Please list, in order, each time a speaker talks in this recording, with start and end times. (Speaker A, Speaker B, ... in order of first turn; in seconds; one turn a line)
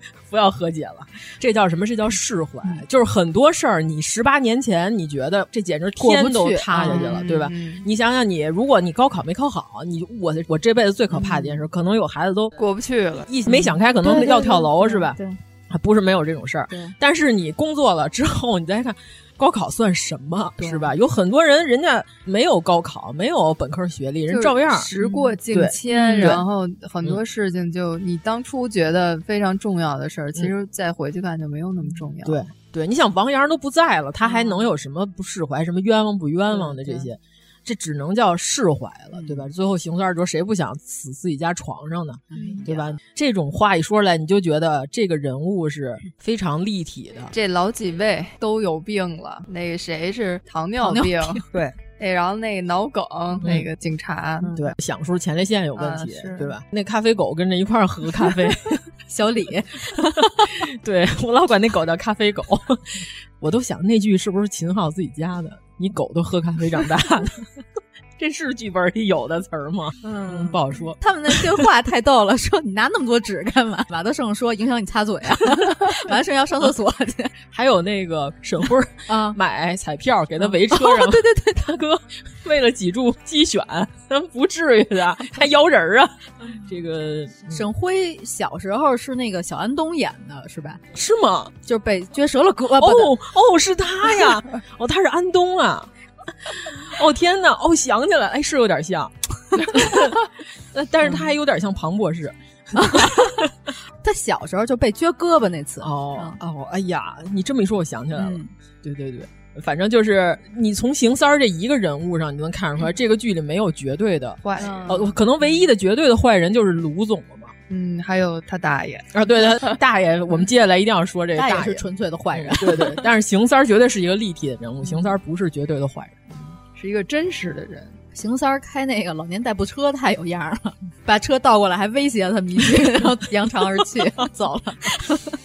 Speaker A: 0.3-12.5
Speaker B: 6.0-7.4
Speaker C: 6.8-7.8
Speaker B: 11.1-11.6
Speaker C: 12.6-13.3
Speaker A: 13.3-15.2
Speaker B: 13.5-15.4
Speaker A: 15.7-24.9
Speaker B: 16.7-16.9
Speaker B: 20.6-20.9
Speaker C: 24.3-32.4
Speaker B: 24.9-26.4
Speaker A: 25.5-26.4
Speaker A: 32.2-47.3
Speaker B: 34.2-34.6
Speaker B: 39.1-39.4
Speaker B: 42.3-42.7
Speaker C: 42.3-42.8
Speaker C: 47.3-51.4
Speaker B: 50.8-51.5
Speaker C: 52.0-54.5
Speaker A: 53.4-53.7
Speaker B: 54.4-54.7
Speaker A: 54.5-58.8
Speaker C: 55.8-56.5
Speaker B: 59.1-60.5
Speaker A: 60.2-67.5
Speaker A: 68.2-71.6
Speaker B: 70.0-77.3
Speaker A: 77.5-87.6
Speaker B: 79.1-79.4
Speaker B: 80.4-81.7
Speaker B: 87.5-90.8
Speaker A: 90.9-91.5
Speaker B: 91.7-93.1
Speaker A: 92.8-95.9
Speaker A: 96.5-100.2
Speaker A: 100.7-103.5
Speaker B: 102.7-103.4
Speaker B: 104.0-106.4
Speaker A: 105.8-117.5
Speaker B: 108.2-108.5
Speaker C: 114.4-115.0
Speaker B: 114.6-115.2
Speaker C: 117.7-119.8
Speaker A: 119.1-126.3
Speaker B: 121.3-123.0
Speaker C: 126.8-128.0
Speaker B: 128.1-135.3
Speaker A: 132.8-133.1